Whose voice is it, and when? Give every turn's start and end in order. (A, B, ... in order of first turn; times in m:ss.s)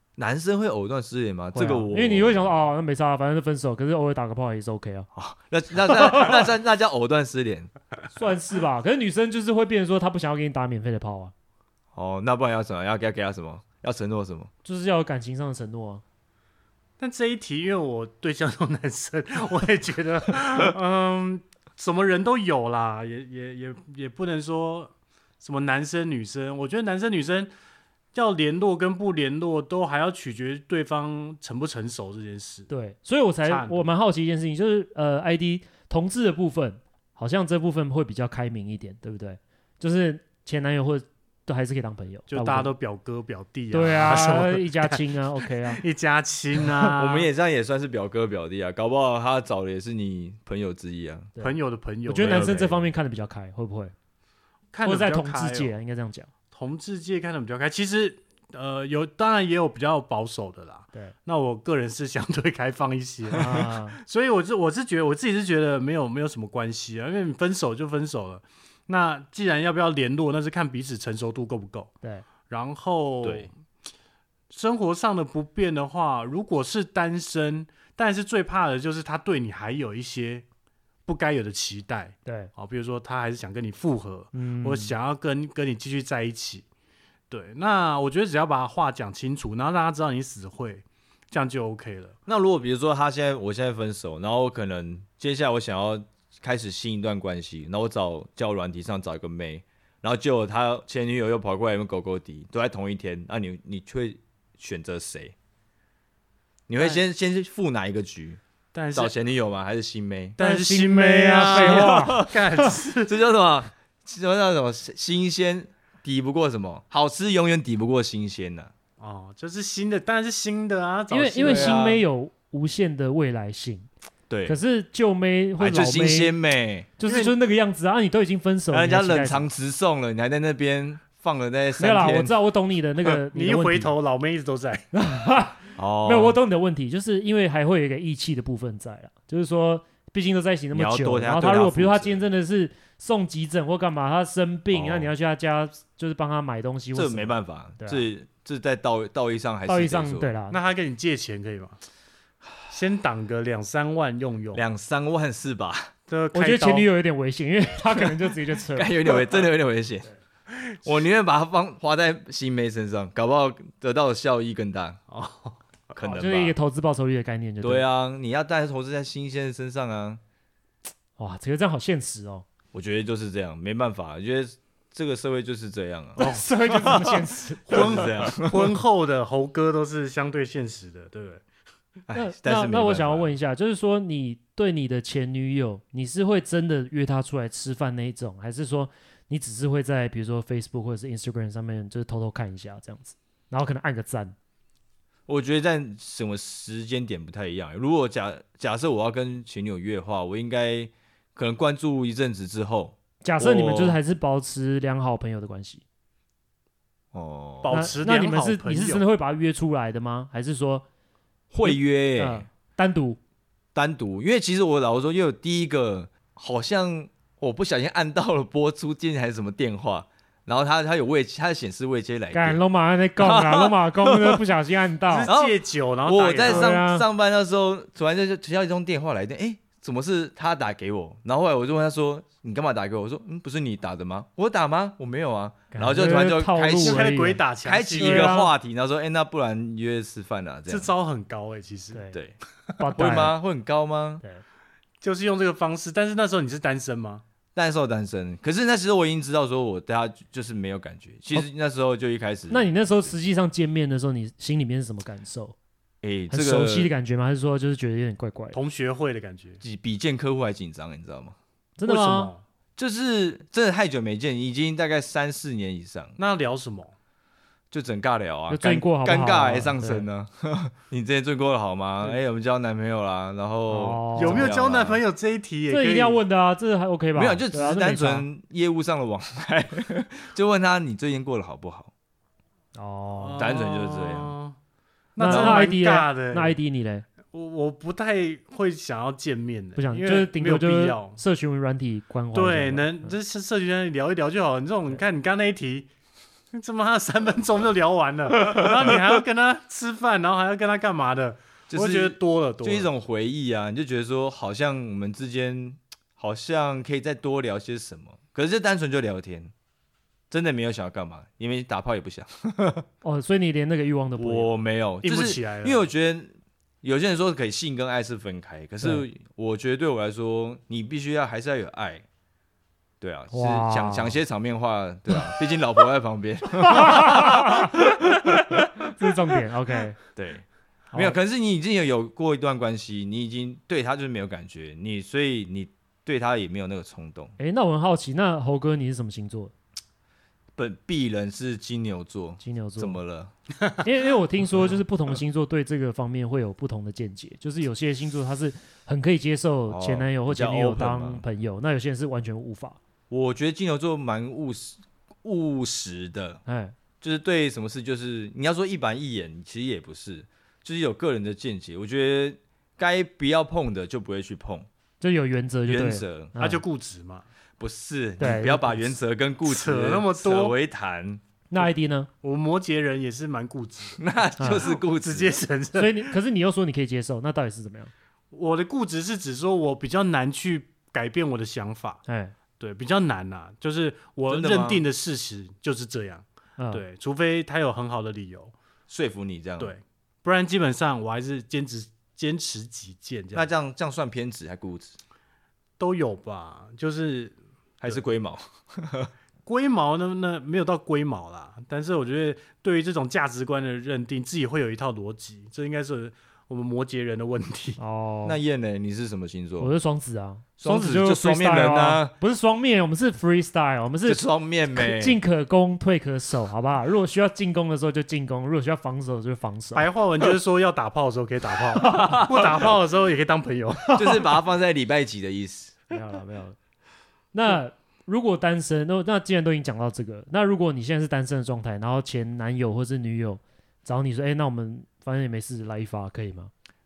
0:00.2-0:02.5 A
0:01.5-0:05.1 B
0:05.1-0:07.7 A
0:08.1-0:11.3 B
0:11.9-0:14.5 A
0:14.6-0:16.0 B
0:17.0-0:27.5 C
0:28.1-0:32.7 C
0:32.7-0:42.7 B
0:33.4-0:33.9 C
0:42.3-0:47.3 C
0:43.7-0:45.8 B
0:47.0-0:51.3 A
0:51.4-0:52.6 C
0:52.1-0:53.9 B
0:52.2-0:52.8 A
0:54.7-0:55.7 C
0:54.8-0:56.3 B
0:56.5-1:11.9 C
1:03.3-1:04.0 B
1:12.5-1:13.5 C
1:13.2-1:13.5 A
1:14.5-1:20.4 C
1:21.0-1:26.6 C
1:22.2-1:22.5 B
1:24.3-1:24.9 B
1:27.3-1:32.1 C
1:32.3-1:45.3 A
1:46.7-1:48.4 A
1:48.7-1:49.1 C
1:48.9-1:50.4 A
1:50.4-1:53.2 C
1:50.4-1:52.3 B
1:51.4-1:52.4 A
1:53.0-1:58.7 A
1:59.0-2:01.9 C
2:01.1-2:03.9 B
2:01.4-2:02.0 A
2:04.3-2:04.6 A
2:04.4-2:06.3 B
2:05.6-2:06.9 A
2:07.0-2:09.4 B
2:07.0-2:07.3 C
2:08.7-2:12.3 A
2:11.8-2:13.9 B
2:13.3-2:14.9 C
2:14.9-2:28.0 B
2:15.8-2:16.4 A
2:20.7-2:22.2 A
2:24.7-2:25.1 A
2:26.9-2:30.3 A
2:29.6-2:30.6 B
2:30.5-2:31.8 C
2:32.7-2:34.6 C
2:34.5-2:35.9 A
2:36.1-2:36.9 C
2:36.3-2:39.0 B
2:38.7-2:40.1 A
2:40.8-2:45.0 A
2:45.1-2:45.6 C
2:45.9-2:46.5 A
2:46.0-2:47.8 B
2:47.6-2:50.2 A
2:51.2-2:52.4 B
2:52.7-2:58.7 A
2:56.2-2:58.1 B
2:56.2-2:56.9 C
2:57.7-3:01.4 C
3:02.1-3:03.3 A
3:02.1-3:14.3 B
3:15.3-3:24.0 A
3:23.2-3:25.8 B
3:27.1-3:27.7 A
3:27.6-3:29.0 C
3:27.7-3:30.8 B
3:31.5-3:32.5 A
3:31.6-3:33.2 B
3:33.7-3:42.6 A
3:42.3-3:45.3 B
3:43.2-3:44.4 A
3:45.1-3:46.7 C
3:45.3-3:57.1 A
3:46.4-3:47.0 B
3:55.7-3:57.4 B
3:56.8-3:58.3 C
3:57.6-4:00.9 A
3:58.0-3:58.5 B
4:00.7-4:02.0 C
4:02.8-4:03.3 B
4:02.9-4:04.2 A
4:05.0-4:07.2 C
4:07.6-4:12.7 A
4:12.5-4:15.5 B
4:16.0-4:16.9 A
4:16.3-4:18.6 B
4:18.5-4:19.6 C
4:19.6-4:21.4 A
4:21.8-4:22.3 B
4:21.8-4:22.4 C
4:22.8-4:26.2 A
4:26.2-4:26.9 C
4:27.7-4:35.0 A
4:28.5-4:30.0 B
4:33.7-4:34.5 B
4:34.2-4:36.2 C
4:35.7-4:38.2 B
4:37.2-4:41.9 A
4:42.7-4:43.4 B
4:43.1-4:44.5 C
4:43.4-4:44.4 A
4:45.2-4:46.6 C
4:45.2-4:47.0 B
4:45.2-4:45.6 A
4:47.3-4:51.2 C
4:49.8-4:53.1 B
4:52.3-4:55.9 C
4:56.5-5:02.9 C
5:01.7-5:09.5 A
5:10.3-5:12.8 A
5:13.0-5:14.5 B
5:14.2-5:22.0 A
5:15.0-5:15.8 C
5:23.0-5:28.7 A
5:23.3-5:24.2 B
5:26.6-5:27.7 B
5:28.9-5:30.0 B
5:30.2-5:37.3 A
5:37.4-5:39.5 B
5:40.6-5:43.3 A
5:42.4-5:43.0 B
5:43.8-5:52.8 B
5:49.7-5:51.2 A
5:53.1-5:56.4 A
5:56.4-5:56.8 B
5:57.0-6:04.7 A
6:05.0-6:06.6 B
6:05.7-6:06.3 A
6:06.4-6:07.2 C
6:07.6-6:11.2 A
6:08.2-6:08.8 B
6:09.4-6:10.6 C
6:11.5-6:12.1 B
6:12.2-6:16.1 C
6:14.0-6:15.4 A
6:14.4-6:14.7 B
6:15.8-6:17.9 B
6:18.3-6:22.0 C
6:22.1-6:22.3 B
6:22.6-6:28.5 C
6:24.3-6:24.8 A
6:28.9-6:29.7 A
6:29.6-6:33.5 C
6:33.3-6:35.0 A
6:35.8-6:38.0 C
6:37.8-6:39.1 A
6:39.4-6:47.8 C
6:47.8-6:48.4 B
6:48.2-6:49.7 A
6:49.6-6:59.9 B
6:50.6-6:52.1 A
6:54.0-6:55.2 A
6:59.7-7:04.3 C
7:01.8-7:02.5 A
7:03.9-7:05.8 A
7:05.9-7:06.6 B
7:07.3-7:16.5 B